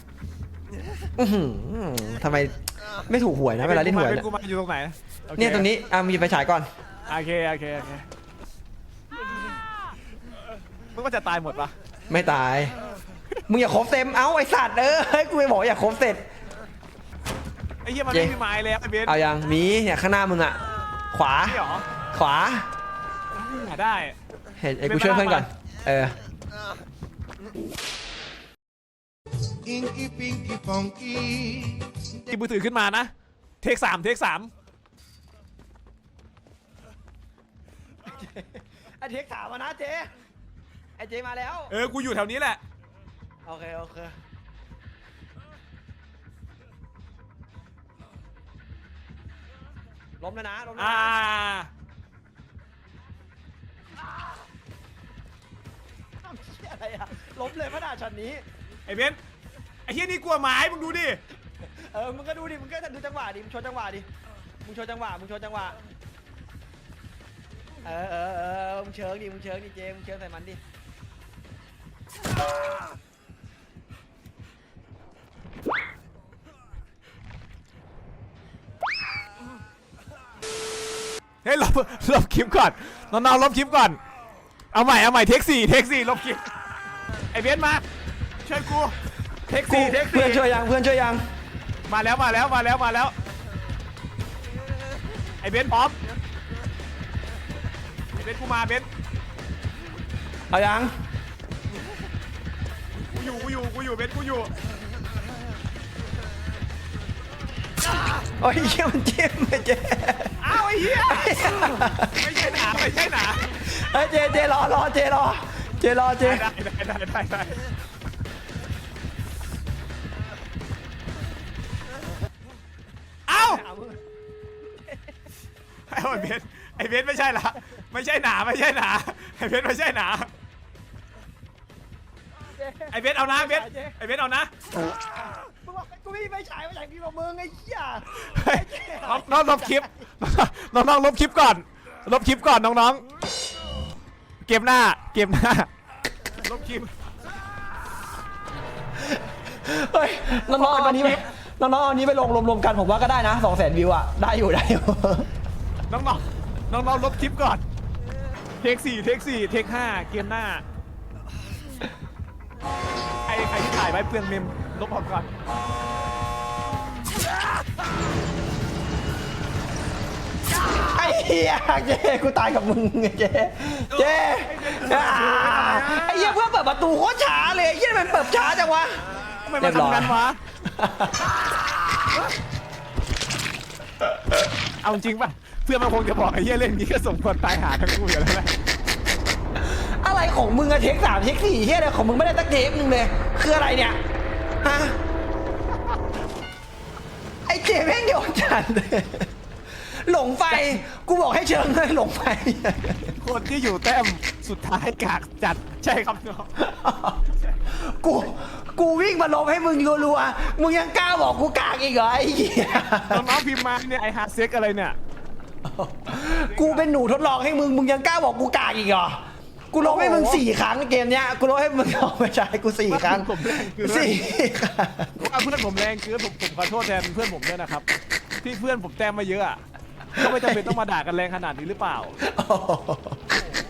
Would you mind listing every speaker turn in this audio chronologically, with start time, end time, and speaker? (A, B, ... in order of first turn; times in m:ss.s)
0:01.2-0:04.3 A
0:03.6-0:05.7 B
0:05.4-0:06.7 A
0:07.1-0:08.1 B
0:10.9-0:11.7 B
0:12.1-0:12.7 A
0:13.5-0:16.2 A
0:17.8-0:19.2 B
0:19.0-0:20.6 A
0:21.1-0:21.6 A
0:21.5-0:21.8 B
0:22.1-0:22.7 A
0:23.3-0:24.1 B
0:24.6-0:26.2 A
0:24.8-0:25.5 B
0:29.6-0:32.1 C
0:32.2-0:33.1 B
0:33.6-0:34.5 B
0:38.0-0:40.1 A
0:41.0-0:41.7 A
0:41.7-0:42.6 B
0:43.4-0:44.2 A
0:50.2-0:51.2 A
0:50.8-0:51.7 B
0:56.2-0:58.4 A
0:58.8-0:59.2 B
0:59.9-1:01.2 B
1:01.6-1:04.1 A
1:04.6-1:05.8 A
1:07.8-1:10.6 A
1:21.4-1:24.0 B
1:24.7-1:26.5 B
1:27.3-1:27.8 B
1:28.4-1:29.0 B
1:29.5-1:30.4 B
1:29.6-1:31.2 A
1:31.9-1:33.1 B
1:35.4-1:36.0 B
1:38.1-1:38.9 B
1:40.5-1:40.9 A
1:43.1-1:44.5 B
1:48.4-1:52.2 A
1:50.4-1:53.5 B
1:53.5-1:56.4 A
1:56.2-1:57.6 B
2:03.3-2:03.6 B
2:03.3-2:04.0 A
2:04.7-2:05.1 A
2:05.9-2:10.3 B
2:12.5-2:14.0 A
2:12.9-2:14.5 B
2:14.8-2:20.1 A
2:18.2-2:23.0 B
2:24.4-2:25.7 B
2:26.4-2:26.9 B
2:29.1-2:35.3 A
2:30.5-2:31.2 B
2:35.9-2:37.6 B
2:38.6-2:40.6 B
2:43.3-2:45.3 B
2:50.5-2:59.1 A
2:53.9-2:56.4 B
2:59.4-3:00.4 B
2:59.6-3:01.6 A
3:04.8-3:08.5 B
3:09.6-3:14.0 A
3:14.6-3:15.0 A
3:17.4-3:23.2 A
3:20.5-3:20.8 B
3:23.2-3:26.5 B
3:26.6-3:33.3 A
3:27.2-3:27.6 B
3:33.0-3:35.0 B
3:35.6-3:45.1 A
3:36.4-3:36.8 B
3:39.8-3:40.4 B
3:42.9-3:44.2 B
3:45.2-3:47.9 B
3:48.4-3:49.6 B
3:50.1-3:52.2 B
3:50.2-3:50.8 A
3:52.2-3:53.2 A